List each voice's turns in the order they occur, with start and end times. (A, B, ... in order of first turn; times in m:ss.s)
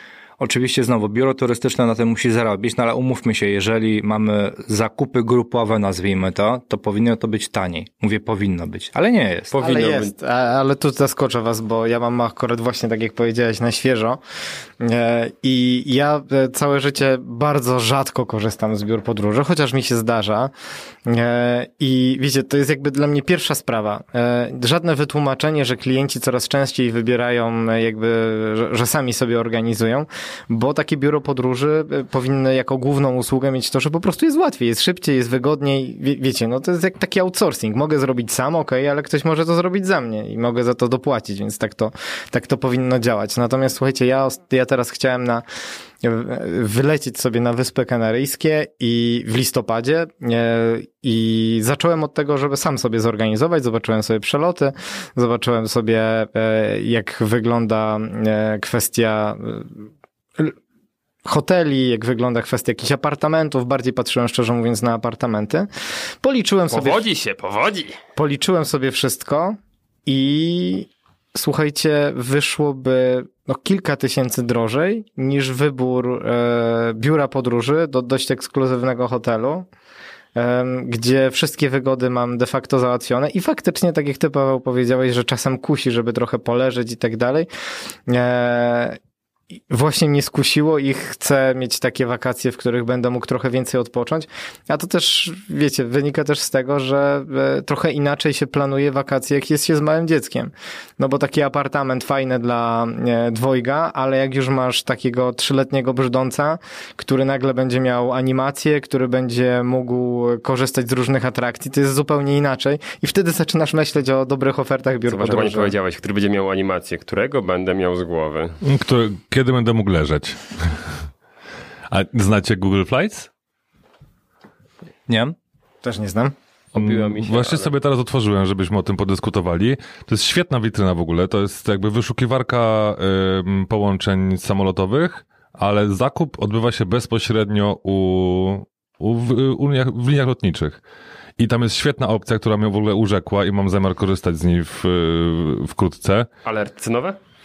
0:00.4-0:09.5 A
0:09.5-0:10.1 B
0:09.6-0:14.2 C
0:14.8-0:20.5 C
0:21.0-0:45.4 C
0:46.0-0:59.7 C
1:01.2-1:05.7 C
1:06.2-1:07.0 C
1:06.7-1:08.0 B
1:08.2-1:19.7 C
1:20.3-1:27.5 C
1:28.1-1:29.0 C
1:29.7-1:55.7 C
1:55.1-1:58.6 B
1:58.6-2:00.8 D
2:01.9-2:03.3 D
2:05.1-2:05.3 A
2:05.8-2:06.3 C
2:06.7-2:07.7 B
2:06.8-2:20.8 D
2:21.4-2:26.3 D
2:26.4-2:27.2 B